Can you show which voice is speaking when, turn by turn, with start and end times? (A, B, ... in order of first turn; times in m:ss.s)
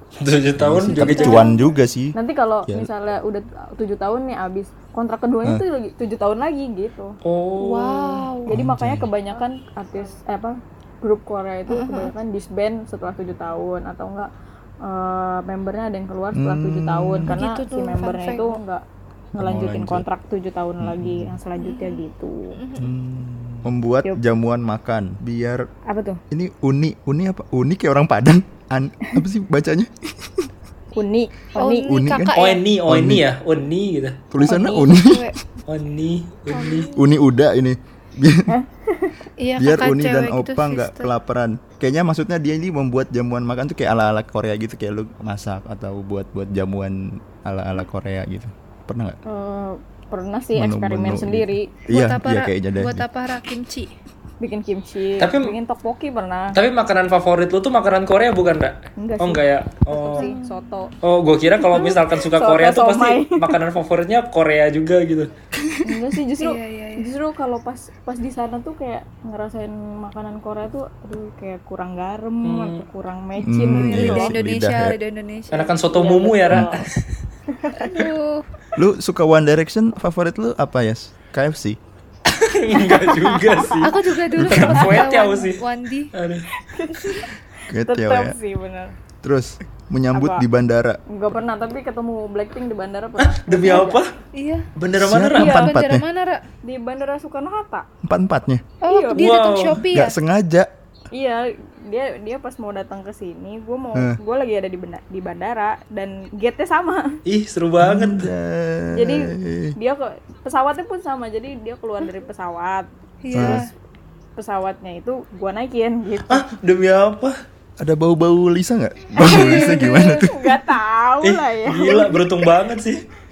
0:00.2-0:01.5 A
0:00.6-0:02.1 B
0:00.9-0:01.7 C
0:02.1-0:07.2 D
0:07.2-0:08.2 A
0:07.6-0:08.6 C
0:08.5-0:09.1 B
0:08.5-0:14.3 D
0:11.7-0:12.1 C
0:14.8-0:18.8 D
0:16.3-0:17.4 B
0:17.3-0:18.6 C
0:19.3-0:20.0 B
0:19.4-0:22.5 D
0:20.8-0:21.4 B
0:21.6-0:22.0 C
0:22.6-0:22.9 C
0:22.8-0:25.6 B
0:25.9-0:26.2 D
0:26.3-0:30.5 B
0:30.9-0:32.0 D
0:31.6-0:32.6 C
0:31.8-0:32.3 B
0:32.3-0:34.2 A
0:32.8-0:33.2 B
0:34.3-0:35.4 B
0:34.4-0:35.3 C
0:35.7-0:36.9 A
0:36.5-0:37.1 C
0:36.9-0:38.5 B
0:38.5-0:39.2 D
0:39.4-0:41.1 C
0:39.6-0:49.2 B
0:49.2-0:51.7 D
0:50.5-0:53.0 B
0:51.9-0:53.9 C
0:54.4-0:56.6 D
0:55.2-0:55.5 A
0:56.5-1:00.3 A
0:59.0-1:00.9 D
1:00.2-1:00.6 C
1:01.0-1:05.3 A
1:01.6-1:02.0 C
1:01.8-1:03.6 D
1:05.6-1:05.8 B
1:05.8-1:14.3 D
1:06.4-1:07.1 C
1:12.4-1:12.8 A
1:13.4-1:15.0 B
1:13.6-1:15.8 C
1:15.5-1:17.1 A
1:15.9-1:16.8 D
1:17.5-1:17.9 D
1:17.8-1:18.5 C
1:18.8-1:21.8 B
1:22.3-1:25.6 A
1:22.9-1:23.9 D
1:23.8-1:26.1 C
1:24.3-1:25.0 B
1:26.1-1:26.4 A
1:26.5-1:28.9 D
1:27.0-1:27.2 C
1:27.7-1:28.4 B
1:29.2-1:31.0 B
1:30.1-1:30.4 D
1:31.1-1:34.0 D
1:33.2-1:34.1 A
1:33.6-1:34.7 C
1:34.8-1:35.6 A
1:35.0-1:36.0 B
1:35.4-1:35.8 D
1:35.5-1:36.4 C
1:36.6-1:37.8 D
1:38.0-1:38.6 B
1:38.8-1:39.3 D
1:38.8-1:40.2 C
1:39.1-1:39.9 A
1:39.8-1:40.7 B
1:41.1-1:47.2 D
1:47.2-1:48.3 A
1:47.8-1:49.7 B
1:49.0-1:53.6 D
1:53.2-1:53.7 C
1:53.3-1:53.6 B
1:54.4-1:56.4 D
1:56.3-1:57.3 A
1:57.8-2:00.5 B
1:59.2-2:00.3 C
1:59.3-2:02.4 D
2:01.2-2:03.0 A